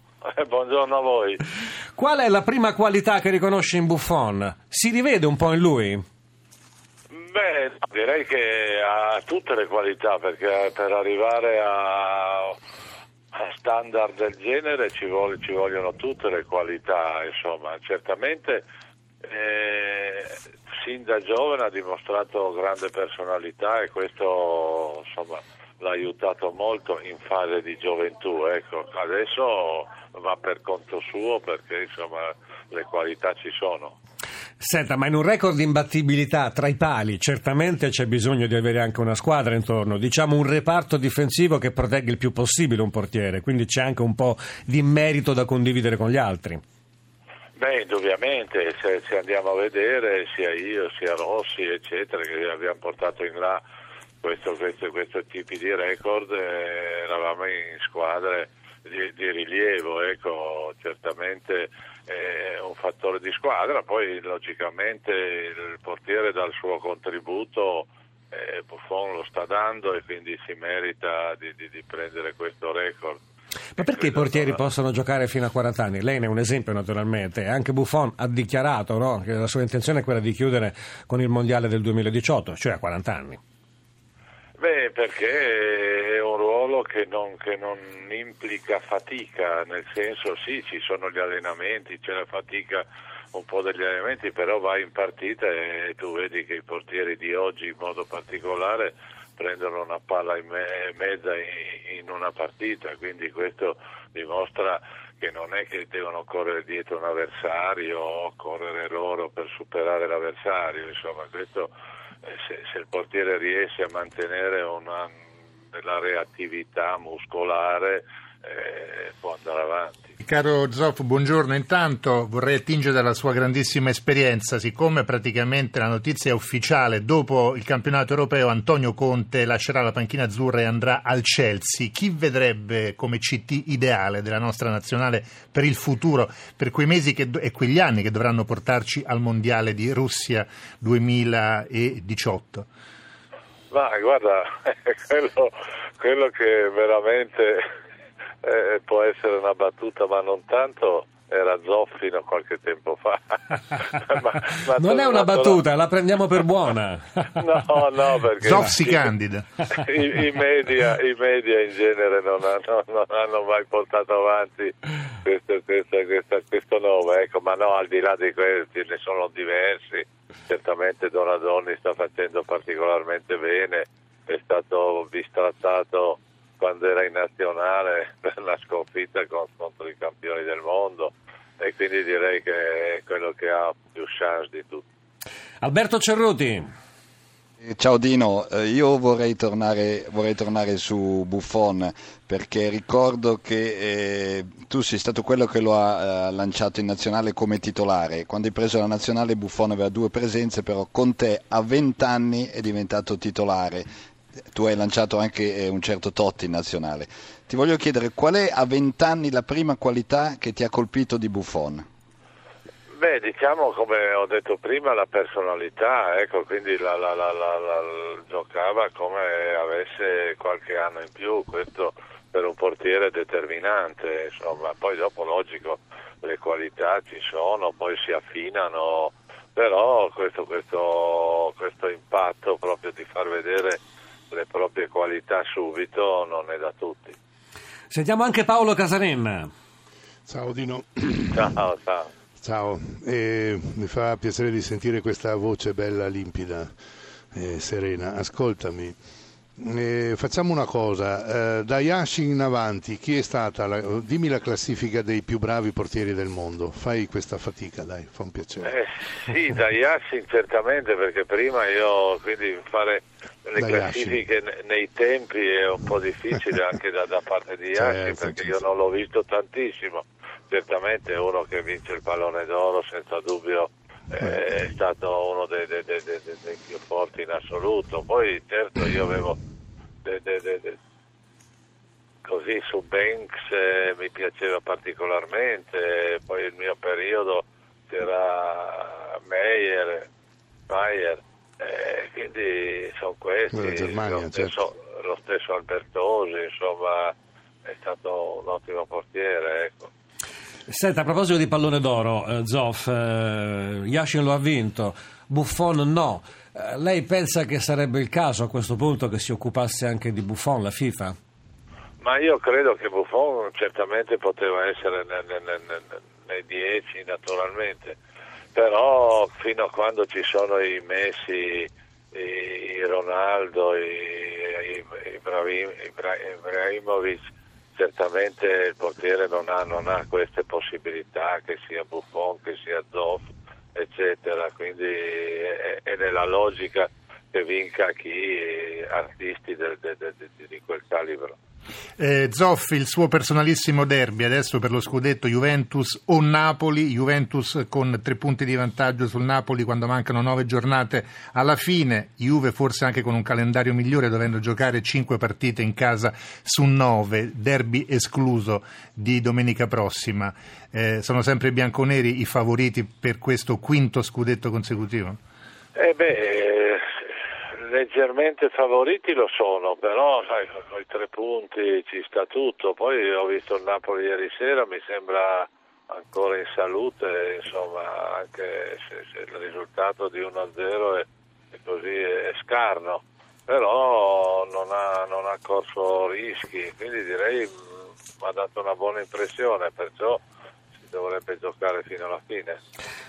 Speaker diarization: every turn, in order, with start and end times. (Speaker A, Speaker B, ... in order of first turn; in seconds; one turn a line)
Speaker A: 0.2-1.4
Speaker B: 1.9-6.0
Speaker A: 7.2-12.6
Speaker A: 13.3-18.6
Speaker A: 19.2-34.0
Speaker B: 34.6-46.6
Speaker A: 47.5-53.6
Speaker A: 54.2-73.2
Speaker B: 73.8-83.4
Speaker A: 73.8-74.6
Speaker A: 84.6-111.7
Speaker A: 112.2-115.2
Speaker A: 115.7-120.1
Speaker C: 120.2-142.7
Speaker A: 143.7-147.6
Speaker A: 148.4-155.6
Speaker B: 154.7-157.4
Speaker A: 157.4-159.0
Speaker C: 158.4-159.4
Speaker A: 159.7-184.8
Speaker B: 185.6-186.7
Speaker D: 187.6-203.8
Speaker D: 204.5-211.8
Speaker A: 212.9-237.2
Speaker B: 237.9-239.5
Speaker E: 240.3-241.5
Speaker A: 241.3-242.1
Speaker E: 242.4-246.7
Speaker E: 247.3-249.0
Speaker E: 249.6-258.8
Speaker A: 258.6-279.4
Speaker E: 263.6-264.2
Speaker E: 267.7-268.6
Speaker A: 280.0-280.8
Speaker A: 282.2-290.1
Speaker A: 290.7-297.1
Speaker E: 293.5-294.6
Speaker A: 297.6-299.9
Speaker B: 300.7-311.1
Speaker A: 312.0-318.0
Speaker A: 318.5-341.4
Speaker C: 342.0-365.2
Speaker A: 365.8-366.9
Speaker A: 367.5-387.6
Speaker A: 388.2-390.2
Speaker A: 390.8-392.6